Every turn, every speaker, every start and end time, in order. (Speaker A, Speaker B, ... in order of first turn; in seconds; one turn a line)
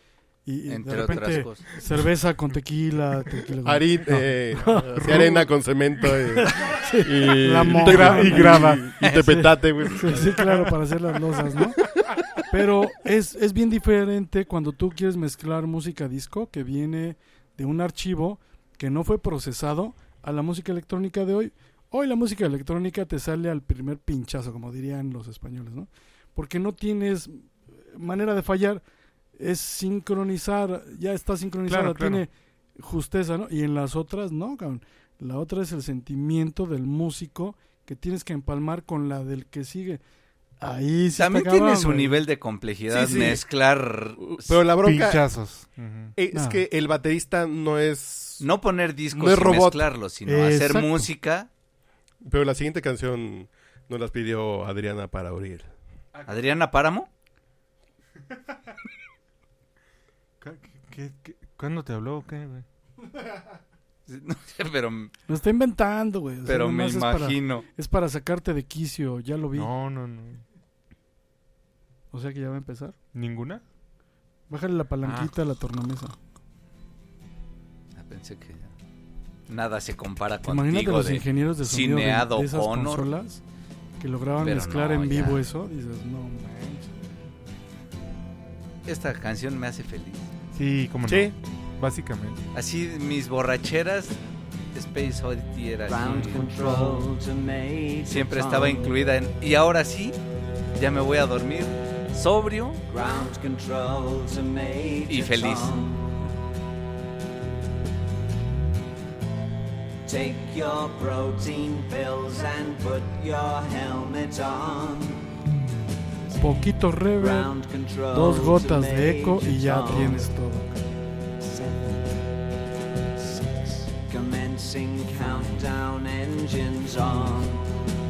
Speaker A: 0.5-5.2
Speaker B: 0.7-1.7
Speaker C: 3.6-10.4
Speaker D: 5.0-5.5
Speaker A: 6.4-8.8
Speaker D: 7.7-8.8
Speaker A: 10.0-11.8
Speaker D: 10.3-10.7
Speaker A: 12.5-28.8
Speaker A: 29.4-40.0
Speaker D: 31.7-32.2
Speaker A: 40.6-42.2
Speaker B: 41.2-44.5
Speaker C: 42.9-43.4
Speaker C: 44.2-45.2
Speaker D: 44.8-46.1
Speaker C: 46.2-48.4
Speaker A: 46.3-46.6
Speaker B: 48.4-51.5
Speaker C: 49.1-49.9
Speaker A: 50.3-51.1
Speaker C: 52.2-55.7
Speaker D: 56.1-56.4
Speaker B: 56.3-57.1
Speaker D: 60.4-62.6
Speaker B: 64.1-65.1
Speaker A: 65.3-69.7
Speaker B: 66.5-67.7
Speaker D: 69.5-70.4
Speaker A: 72.1-73.0
Speaker D: 73.1-73.6
Speaker A: 74.5-76.2
Speaker D: 75.0-75.3
Speaker B: 78.0-78.7
Speaker B: 79.5-83.1
Speaker A: 80.4-83.4
Speaker A: 84.0-87.0
Speaker B: 84.4-85.4
Speaker B: 88.8-90.3
Speaker D: 90.5-92.4
Speaker C: 91.1-91.3
Speaker B: 92.5-94.2
Speaker B: 94.7-97.0
Speaker E: 95.9-99.0
Speaker B: 98.1-100.2
Speaker B: 100.8-102.8
Speaker E: 102.9-106.1
Speaker B: 105.1-105.8
Speaker E: 110.0-115.2
Speaker A: 116.4-117.5
Speaker E: 117.2-120.3
Speaker A: 118.1-120.8
Speaker E: 121.4-122.2
Speaker E: 123.2-127.7